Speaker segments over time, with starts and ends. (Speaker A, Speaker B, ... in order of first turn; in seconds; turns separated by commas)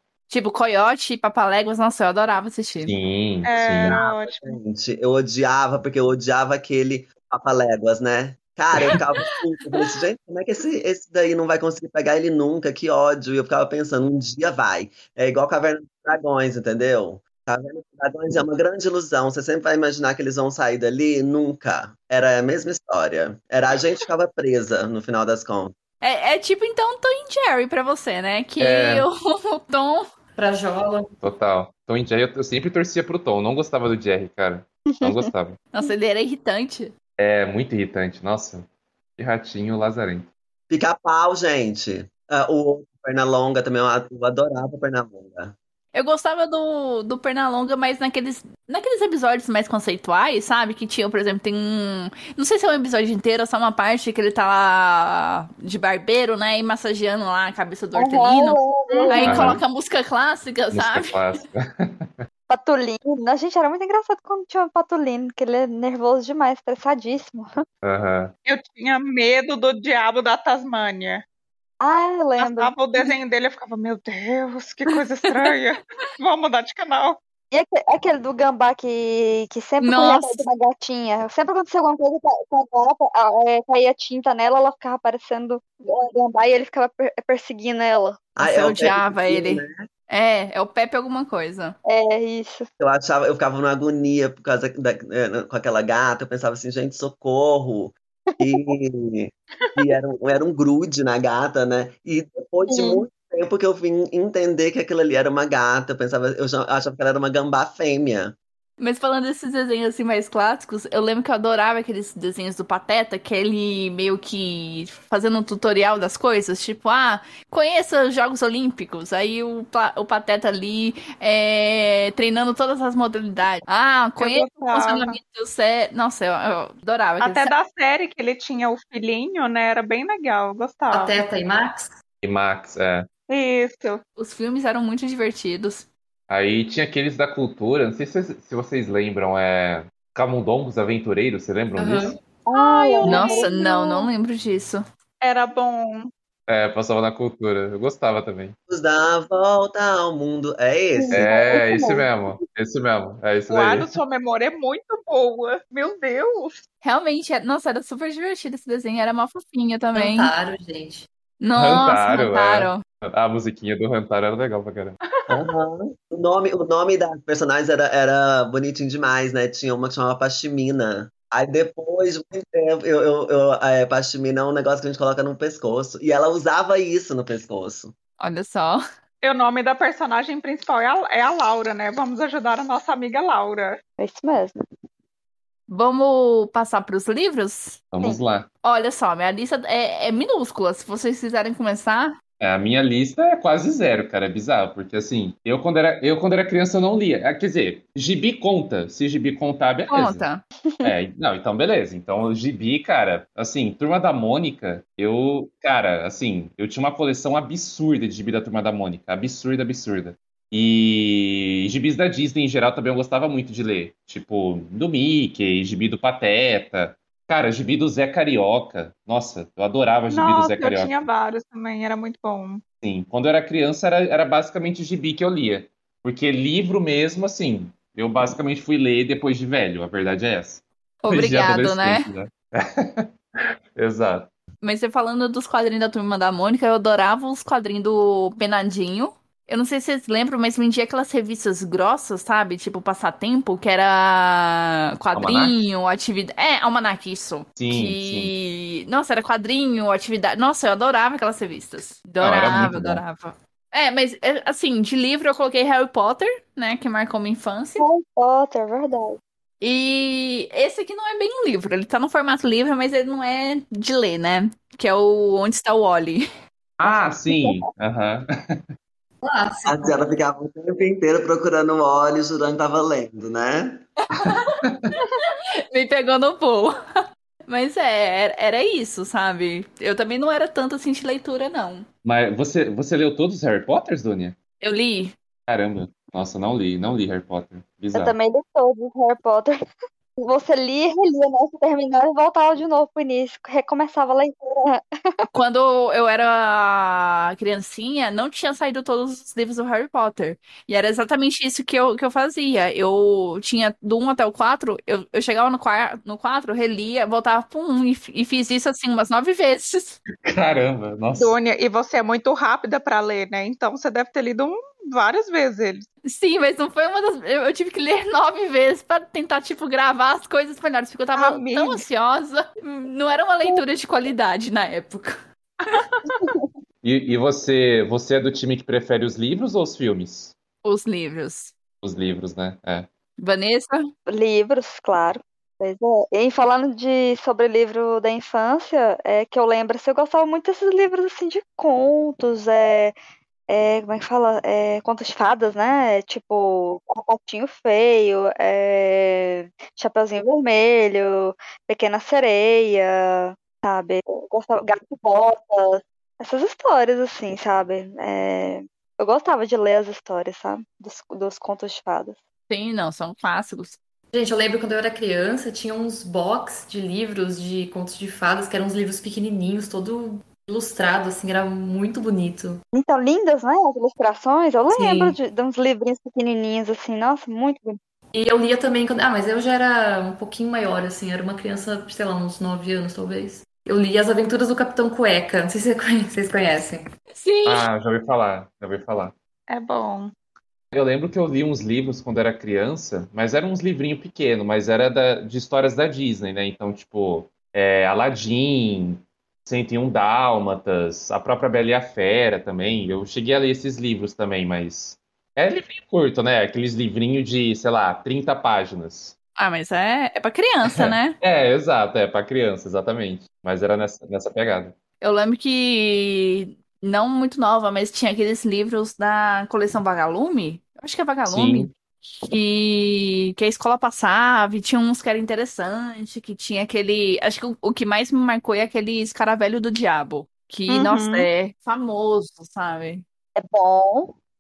Speaker A: 0.3-2.9, Speaker B: 2.9-4.0, Speaker C: 3.5-4.5, Speaker D: 3.6-25.8, Speaker A: 26.0-30.1, Speaker B: 28.6-29.1, Speaker E: 30.4-31.1, Speaker B: 31.2-35.6, Speaker F: 34.9-35.3, Speaker A: 35.7-37.0, Speaker B: 37.2-38.7, Speaker B: 39.2-40.3, Speaker D: 40.7-45.5, Speaker A: 45.9-61.4, Speaker F: 58.0-59.5, Speaker C: 58.9-59.5, Speaker B: 59.2-59.6, Speaker B: 60.7-62.3, Speaker F: 62.5-67.5, Speaker B: 67.8-68.3, Speaker C: 68.5-71.2, Speaker F: 71.8-72.7, Speaker C: 72.4-77.2, Speaker A: 75.3-75.5, Speaker F: 77.5-88.2, Speaker A: 79.8-80.5, Speaker D: 88.4-89.9, Speaker A: 88.4-91.8, Speaker F: 91.9-92.7, Speaker D: 92.8-108.4, Speaker F: 102.7-103.0, Speaker A: 108.8-127.5, Speaker C: 124.2-125.2, Speaker C: 127.2-131.2, Speaker E: 130.9-131.9, Speaker B: 132.2-133.1, Speaker C: 133.3-134.0, Speaker A: 134.2-135.9, Speaker B: 136.3-142.1, Speaker E: 141.8-142.2, Speaker F: 142.5-144.1, Speaker C: 142.5-143.6, Speaker A: 143.1-144.8, Speaker C: 145.2-146.1, Speaker B: 146.5-148.6, Speaker D: 148.7-151.3, Speaker F: 151.0-152.2, Speaker B: 151.1-153.9, Speaker C: 153.5-156.6, Speaker A: 156.8-160.3, Speaker E: 159.9-161.1, Speaker A: 161.4-162.8, Speaker B: 161.6-165.0, Speaker D: 165.3-177.9, Speaker A: 178.2-178.8, Speaker C: 179.2-183.8, Speaker F: 184.0-184.6, Speaker A: 185.7-187.8, Speaker B: 187.9-188.5, Speaker A: 188.6-192.2, Speaker B: 192.4-200.2, Speaker A: 199.9-200.4, Speaker B: 200.8-221.0, Speaker C: 220.1-222.6, Speaker B: 222.8-233.1, Speaker A: 231.0-232.1, Speaker B: 233.8-234.3, Speaker A: 234.6-257.9, Speaker B: 245.2-245.6, Speaker B: 247.6-248.3, Speaker B: 252.2-253.0, Speaker F: 257.8-259.2, Speaker A: 259.6-266.2, Speaker B: 266.8-268.6, Speaker F: 266.9-267.6, Speaker E: 269.2-270.0, Speaker D: 269.7-273.9, Speaker A: 274.1-276.7, Speaker B: 274.6-274.9, Speaker A: 277.5-281.9, Speaker B: 282.1-284.4, Speaker A: 284.6-285.2, Speaker B: 285.5-288.1, Speaker F: 287.9-289.6, Speaker F: 290.2-295.3, Speaker A: 295.3-310.0, Speaker B: 310.2-311.4, Speaker C: 311.1-315.9, Speaker A: 316.1-325.2, Speaker C: 321.2-321.9, Speaker C: 325.7-326.3, Speaker B: 326.8-330.4, Speaker A: 330.6-331.5, Speaker B: 331.8-332.9, Speaker A: 333.2-333.8, Speaker F: 334.1-342.9, Speaker F: 343.5-362.2, Speaker A: 362.5-363.8, Speaker E: 364.1-372.6, Speaker F: 372.7-377.8, Speaker E: 374.7-375.2, Speaker E: 378.1-386.9, Speaker A: 387.1-387.7, Speaker B: 387.5-389.1, Speaker C: 389.5-390.1, Speaker B: 390.7-409.1, Speaker A: 409.4-411.2, Speaker B: 410.7-414.8, Speaker A: 415.0-421.7, Speaker B: 421.3-421.7, Speaker A: 422.2-433.0, Speaker C: 430.7-431.3, Speaker F: 433.4-434.1